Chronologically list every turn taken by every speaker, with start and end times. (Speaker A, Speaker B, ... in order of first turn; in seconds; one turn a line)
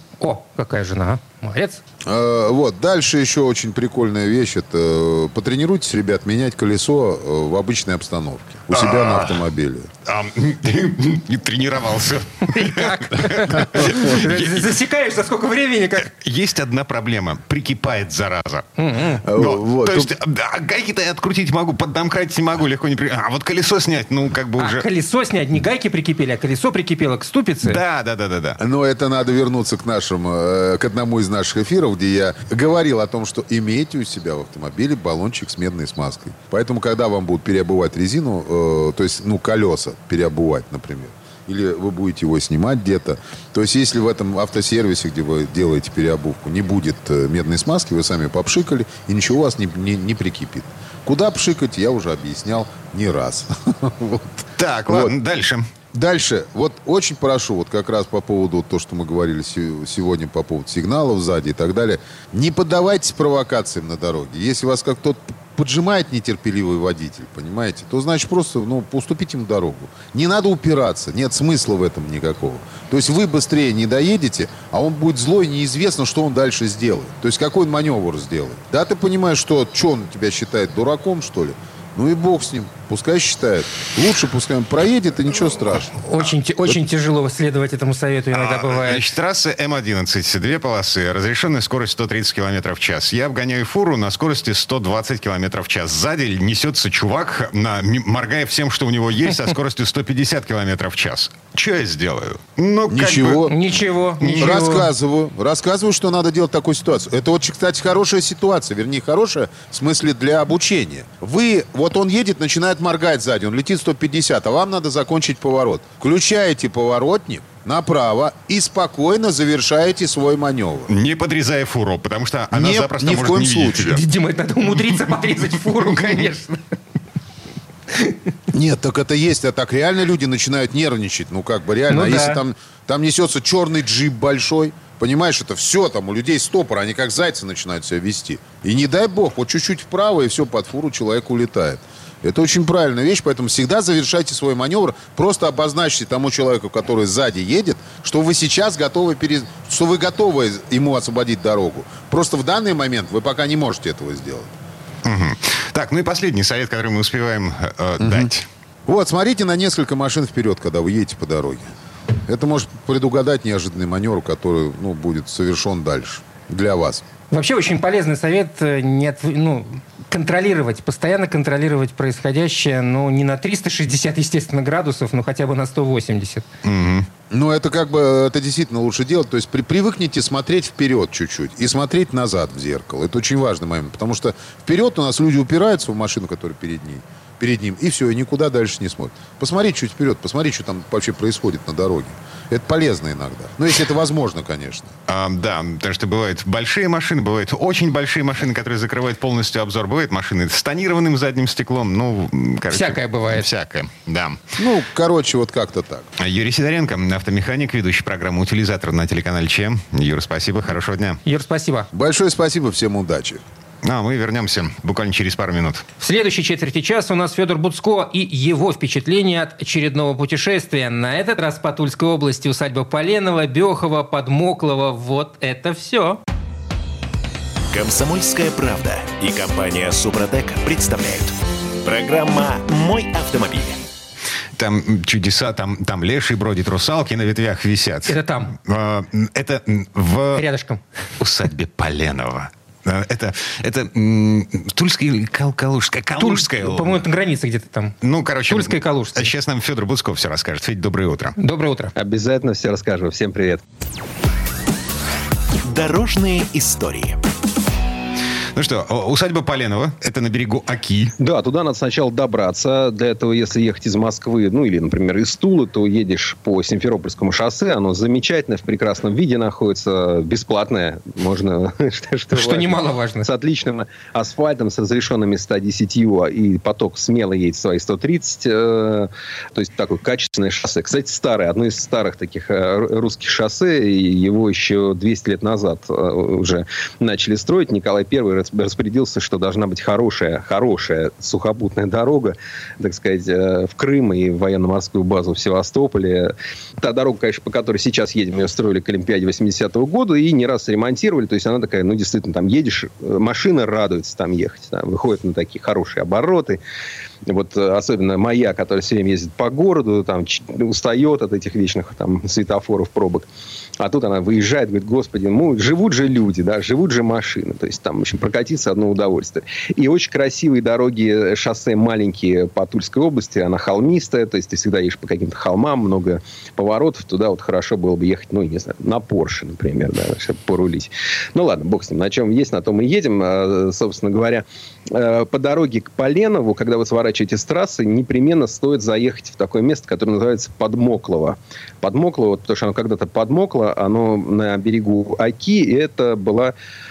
Speaker A: 0.2-1.8
Speaker B: 2.1-9.9
Speaker C: 8.7-9.4
Speaker C: 10.1-14.7
Speaker A: 12.5-16.1
Speaker C: 16.0-18.7
Speaker A: 18.8-19.2
Speaker B: 19.2-20.1
Speaker C: 19.3-24.9
Speaker A: 24.6-27.8
Speaker C: 27.6-28.6
Speaker B: 28.6-55.2
Speaker C: 54.6-55.7
Speaker B: 55.9-86.0
Speaker A: 86.0-89.1
Speaker C: 88.3-103.6
Speaker B: 102.9-103.6
Speaker A: 103.5-104.9
Speaker C: 104.2-104.6
Speaker B: 104.4-120.9
Speaker C: 120.9-124.0
Speaker B: 122.5-124.0
Speaker A: 123.9-126.6
Speaker C: 125.5-126.3
Speaker B: 128.5-154.5
Speaker A: 131.9-132.4
Speaker C: 155.0-158.5
Speaker B: 158.0-158.3
Speaker B: 158.9-167.0
Speaker A: 167.3-176.4
Speaker C: 176.6-177.1
Speaker B: 177.3-194.9
Speaker C: 195.1-204.4
Speaker A: 202.7-203.5
Speaker B: 204.6-206.1
Speaker C: 206.2-211.2
Speaker A: 211.2-211.9
Speaker B: 211.9-213.4
Speaker C: 213.8-215.8
Speaker A: 216.0-226.2
Speaker D: 227.7-233.8
Speaker C: 234.6-240.5
Speaker A: 238.1-238.6
Speaker A: 240.3-240.8
Speaker C: 241.2-247.0
Speaker A: 246.2-248.0
Speaker C: 248.0-251.3
Speaker A: 248.5-249.3
Speaker A: 251.4-251.9
Speaker E: 252.0-253.6
Speaker D: 255.6-257.2
Speaker C: 258.6-261.1
Speaker E: 261.2-306.6
Speaker A: 272.3-273.3
Speaker E: 307.3-313.3
Speaker E: 313.8-346.5